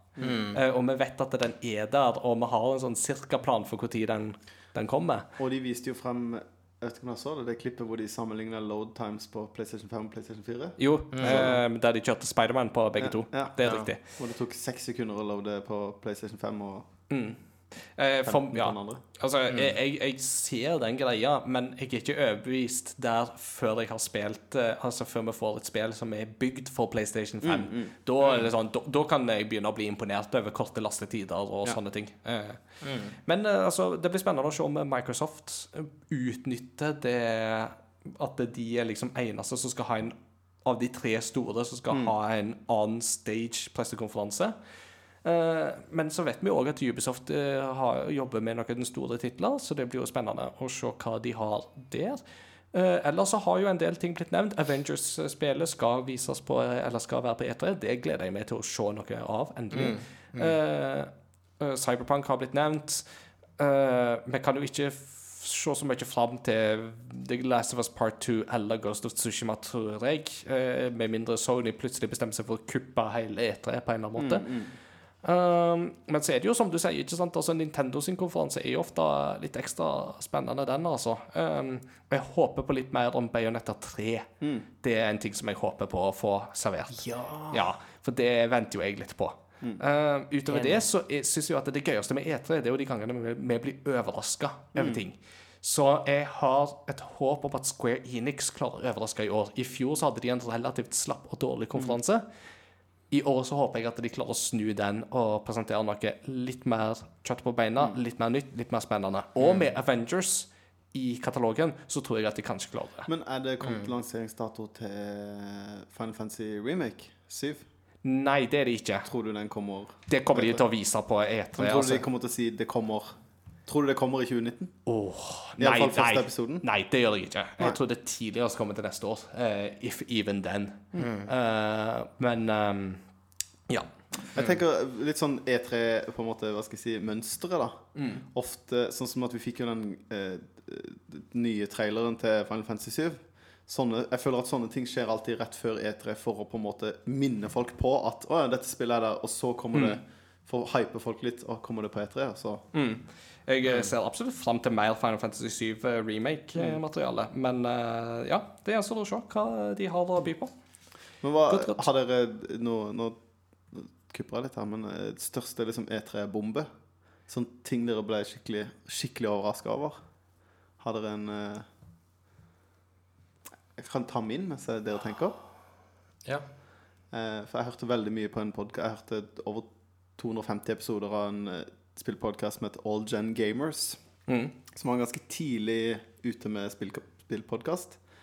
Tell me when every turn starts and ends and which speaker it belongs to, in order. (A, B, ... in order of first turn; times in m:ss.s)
0:00.2-0:00.6 A
0:00.5-0:05.3 B
0:05.4-0:11.6 C
0:10.8-0:14.0 B
0:11.1-0:11.6 A
0:13.0-0:16.9 C
0:13.6-0:13.9 A
0:17.1-0:44.5 B
0:18.2-0:19.0 C
0:27.4-0:27.9 C
0:32.8-0:33.1 A
0:45.2-1:03.1 B
0:59.7-1:00.5 A
1:03.6-1:14.6 B
1:14.2-1:14.7 C
1:15.2-1:42.2 B
1:24.4-1:24.7 C
1:26.9-1:27.7 A
1:30.5-1:30.8 A
1:34.7-1:35.0 C
1:43.1-1:53.1 B
1:53.1-1:57.6 C
1:53.6-1:53.9 A
1:58.0-1:59.1 B
1:59.0-2:00.6 C
2:00.1-2:02.0 B
2:01.6-2:03.1 C
2:03.6-2:04.7 C
2:04.8-2:13.0 B
2:05.6-2:06.6 C
2:10.9-2:11.3 A
2:14.3-2:32.6 C
2:17.9-2:18.2 B
2:29.7-2:30.0 B
2:32.7-2:40.5 B
2:41.2-2:46.7 C
2:41.5-2:41.8 B
2:47.3-2:50.0 C
2:50.8-2:51.6 C
2:53.8-2:55.4 C
2:57.1-3:04.0 C
3:04.3-3:04.5 B
3:04.7-3:08.0 C